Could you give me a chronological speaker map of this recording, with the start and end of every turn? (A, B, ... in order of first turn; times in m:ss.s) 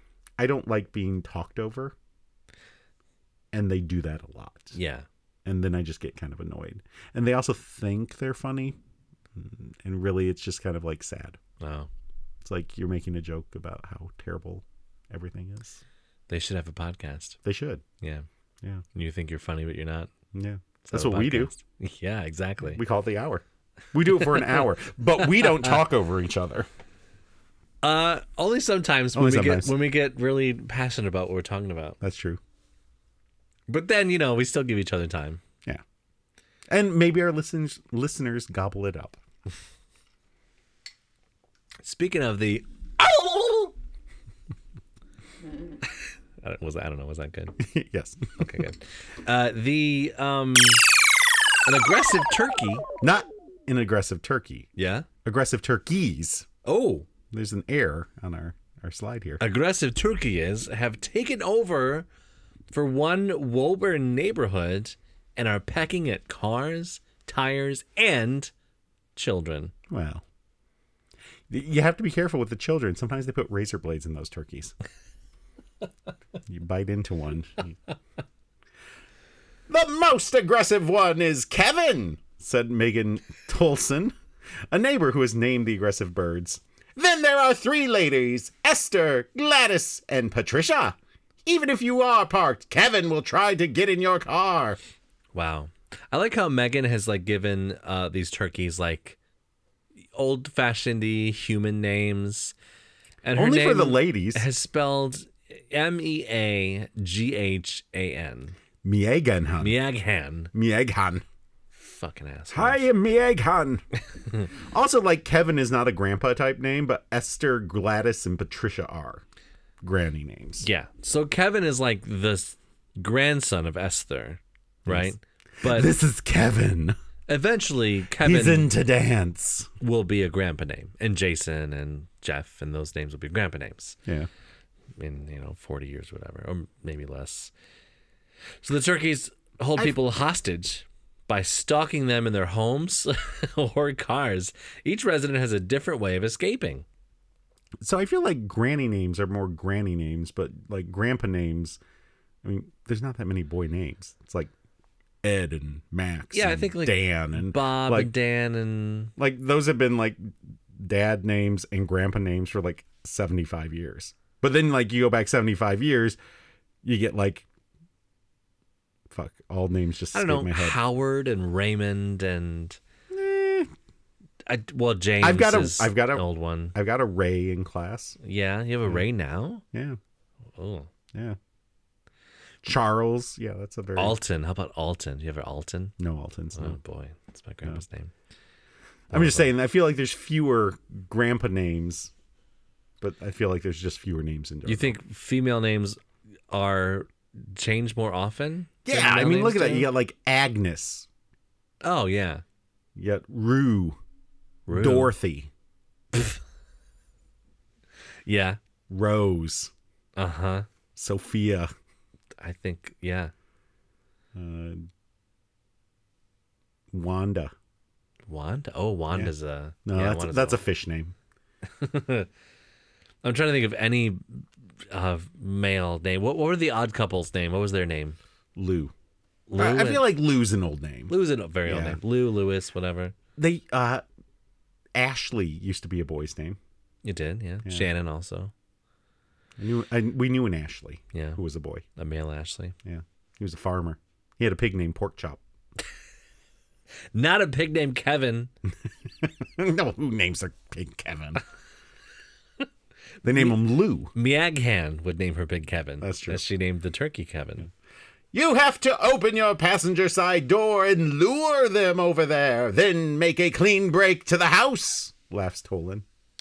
0:00.4-0:01.9 A
0:03.5-0:04.8 A
0:04.7-0:05.0 B
0:05.4-0:08.8 A
0:09.3-0:11.4 A
0:11.6-0:11.9 B
0:12.4-0:15.8 A
0:16.3-0:17.4 B
0:17.4-0:17.8 A
0:18.0-0:18.2 B
0:18.9-0:20.1 B
0:20.3-0:21.5 A
0:20.8-0:22.8 B
0:22.7-0:26.7 A
0:27.8-0:32.0 B
0:29.1-0:29.7 A
0:32.0-0:32.4 A
0:33.7-0:35.4 B
0:36.7-0:39.2 A
0:41.8-0:43.7 B
0:46.4-0:47.6 B
0:47.6-0:48.4 A
0:48.4-0:50.8 B
0:51.6-0:52.8 B
0:53.0-0:54.7 A
0:54.8-0:55.1 B
0:55.2-0:56.5 A
0:56.6-0:57.1 B
0:57.3-0:59.4 A
0:59.4-1:02.1 B
1:02.7-1:08.5 B
1:09.2-1:09.7 B
1:09.9-1:10.2 A
1:11.5-1:14.7 A
1:16.4-1:17.8 A
1:19.7-1:24.1 A
1:24.7-1:34.8 A
1:35.3-1:39.2 B
1:40.1-1:42.5 B
1:43.2-1:48.6 B
1:43.3-1:44.4 A
1:48.8-1:49.8 A
1:49.6-1:50.5 B
1:50.5-1:51.2 A
1:51.8-1:52.8 B
1:52.5-1:53.8 A
1:54.5-1:59.2 A
1:59.8-2:00.6 A
2:00.6-2:05.9 B
2:04.8-2:06.9 A
2:07.3-2:08.7 B
2:08.2-2:09.7 A
2:09.8-2:14.0 B
2:15.0-2:17.5 B
2:18.6-2:26.8 B
2:27.8-2:31.8 A
2:32.4-2:34.5 A
2:35.2-2:38.1 A
2:36.3-2:39.1 B
2:39.2-2:46.2 A
2:46.8-2:47.4 A
2:49.1-2:50.8 A
2:50.1-2:52.8 B
2:53.1-2:53.7 A
2:54.4-2:56.7 B
2:55.2-2:58.2 A
2:58.2-2:59.6 B
2:59.7-3:00.0 A
3:00.6-3:00.9 B
3:02.6-3:04.2 A
3:04.0-3:05.9 B
3:06.0-3:06.8 A
3:06.5-3:08.1 B
3:09.1-3:09.5 B
3:09.1-3:12.1 A
3:13.0-3:15.0 A
3:14.6-3:19.9 B
3:18.8-3:21.1 A
3:21.8-3:22.4 B
3:23.0-3:24.0 A
3:24.7-3:25.1 B
3:24.7-3:25.5 A
3:28.2-3:28.6 B
3:28.9-3:29.7 A
3:30.2-3:30.7 B
3:31.0-3:31.7 A
3:32.4-3:33.3 B
3:34.3-3:34.9 A
3:36.9-3:37.5 A
3:38.3-3:40.6 B
3:39.8-3:41.1 A
3:41.7-3:42.3 B
3:43.2-3:48.2 B
3:48.6-3:48.9 A
3:49.5-3:50.1 B
3:49.6-3:51.1 A
3:51.1-3:53.1 B
3:51.6-3:52.0 A
3:53.4-3:54.0 A
3:55.0-3:56.6 A
3:57.0-3:58.5 B
3:59.6-4:01.8 A
4:01.1-4:01.4 B
4:02.0-4:02.7 B
4:02.8-4:05.4 A
4:07.1-4:08.5 B
4:09.2-4:11.4 A
4:13.2-4:14.1 A
4:14.1-4:17.7 B
4:16.0-4:16.4 A
4:18.3-4:26.0 A